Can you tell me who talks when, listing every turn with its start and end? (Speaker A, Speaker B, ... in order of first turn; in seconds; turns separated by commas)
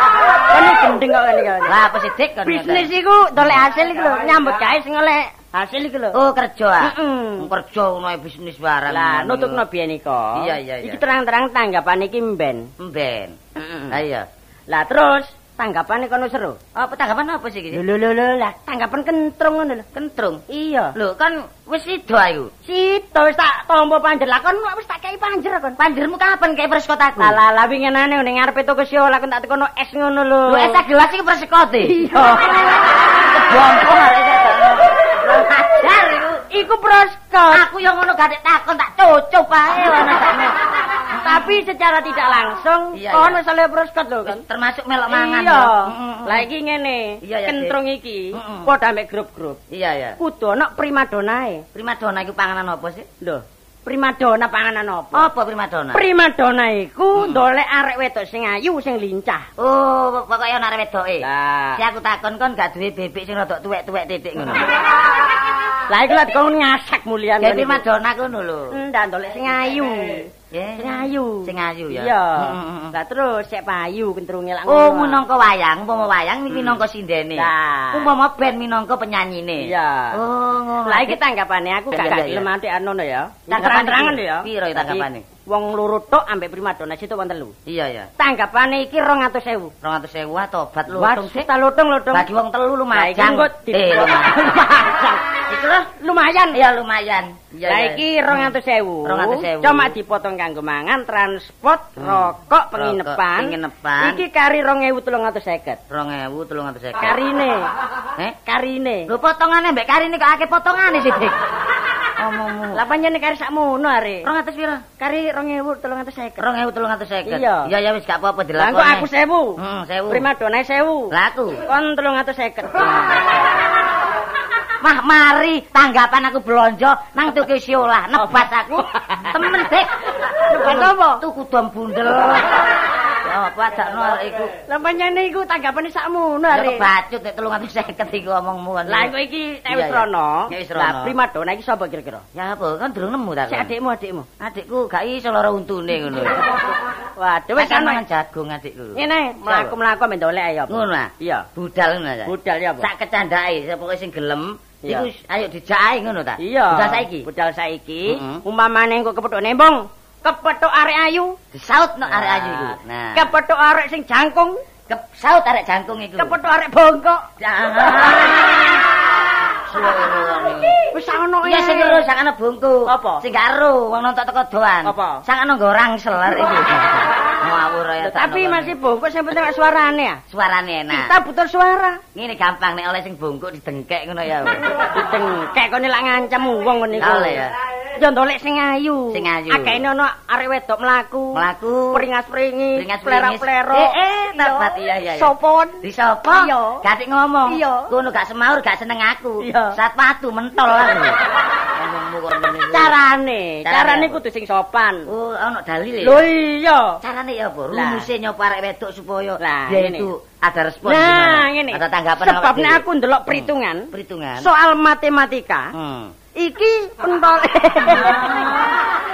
Speaker A: 0.4-1.7, Speaker B: 1.7-2.9, Speaker A: 2.4-6.2, Speaker B: 6.1-9.6, Speaker A: 6.8-7.5, Speaker A: 8.9-12.7, Speaker B: 10.3-11.0, Speaker B: 12.8-13.4, Speaker A: 13.6-14.0, Speaker B: 13.9-14.3, Speaker A: 14.7-16.6, Speaker B: 16.7-17.8, Speaker A: 17.7-19.9, Speaker B: 19.9-20.4, Speaker A: 20.5-20.9, Speaker B: 20.9-22.5, Speaker A: 22.6-25.8, Speaker B: 25.8-27.4, Speaker A: 27.2-30.8, Speaker B: 30.4-32.0, Speaker A: 31.8-32.8, Speaker B: 33.1-36.4, Speaker A: 36.5-37.6, Speaker B: 37.5-40.6, Speaker B: 41.1-41.6, Speaker A: 41.2-44.4, Speaker B: 42.9-43.4, Speaker B: 44.2-46.5, Speaker A: 45.1-49.6, Speaker B: 47.2-47.8, Speaker B: 48.3-48.7, Speaker B: 49.7-50.2, Speaker A: 50.2-51.6, Speaker B: 51.7-53.1, Speaker A: 53.2-55.3, Speaker B: 55.1-56.0, Speaker A: 55.9-59.5, Speaker B: 57.1-57.4, Speaker B: 59.6-64.7, Speaker A: 61.2-61.8, Speaker A: 65.9-67.8, Speaker B: 67.4-68.8, Speaker A: 68.7-75.2, Speaker B: 70.5-72.9, Speaker B: 74.7-81.2, Speaker A: 76.5-76.8, Speaker A: 77.3-78.1, Speaker A: 79.6-80.2, Speaker A: 80.8-87.5, Speaker B: 81.9-82.5, Speaker B: 83.5-85.2, Speaker B: 87.7-88.1, Speaker A: 88.2-89.7, Speaker B: 89.8-91.5, Speaker A: 90.9-92.3, Speaker B: 92.1-94.5, Speaker A: 92.9-95.2, Speaker B: 95.5-95.9, Speaker A: 96.0-96.6, Speaker B: 96.5-98.5, Speaker A: 97.7-105.8, Speaker B: 99.0-99.9, Speaker B: 102.0-104.2, Speaker B: 105.9-107.2, Speaker A: 107.0-107.7, Speaker A: 108.5-109.1, Speaker B: 109.1-111.4, Speaker B: 112.2-112.8, Speaker A: 112.7-114.3, Speaker B: 114.2-114.8, Speaker A: 115.0-116.5, Speaker B: 116.4-120.2, Speaker A: 117.2-117.7, Speaker A: 118.6-121.1, Speaker B: 121.1-121.6, Speaker A: 121.6-123.5, Speaker B: 124.8-129.9, Speaker A: 128.2-129.3, Speaker A: 130.5-131.2, Speaker B: 130.5-132.7, Speaker B: 133.2-134.5, Speaker A: 134.7-136.9, Speaker B: 136.5-139.1, Speaker A: 138.9-142.2, Speaker B: 139.7-141.2, Speaker B: 142.3-143.7, Speaker A: 143.5-144.3, Speaker B: 144.4-146.5, Speaker A: 147.2-148.0, Speaker B: 147.5-149.7, Speaker A: 148.9-151.5, Speaker B: 150.7-157.3, Speaker A: 152.2-152.9, Speaker A: 156.4-161.3, Speaker B: 158.1-158.4, Speaker B: 161.5-163.3, Speaker A: 162.1-164.6, Speaker B: 164.9-166.4, Speaker A: 166.2-167.2, Speaker B: 167.4-168.7, Speaker B: 169.7-170.8, Speaker A: 170.9-172.0, Speaker B: 171.4-178.8, Speaker A: 172.9-173.2, Speaker A: 174.8-175.2, Speaker A: 178.0-180.2, Speaker B: 180.3-181.1, Speaker A: 180.9-182.0, Speaker B: 182.1-184.6, Speaker A: 184.7-187.4, Speaker B: 187.0-187.5, Speaker A: 188.0-196.8, Speaker B: 189.1-189.8, Speaker B: 191.3-192.0, Speaker B: 192.8-201.2, Speaker A: 197.5-197.9, Speaker A: 199.4-199.8, Speaker B: 201.7-202.9, Speaker A: 202.7-205.1, Speaker B: 203.6-204.2, Speaker B: 205.1-206.3, Speaker A: 206.0-207.0, Speaker B: 207.0-214.5, Speaker A: 207.7-208.1, Speaker A: 209.4-210.1, Speaker A: 210.8-215.7, Speaker B: 215.7-216.1, Speaker A: 216.3-218.4, Speaker B: 217.9-218.6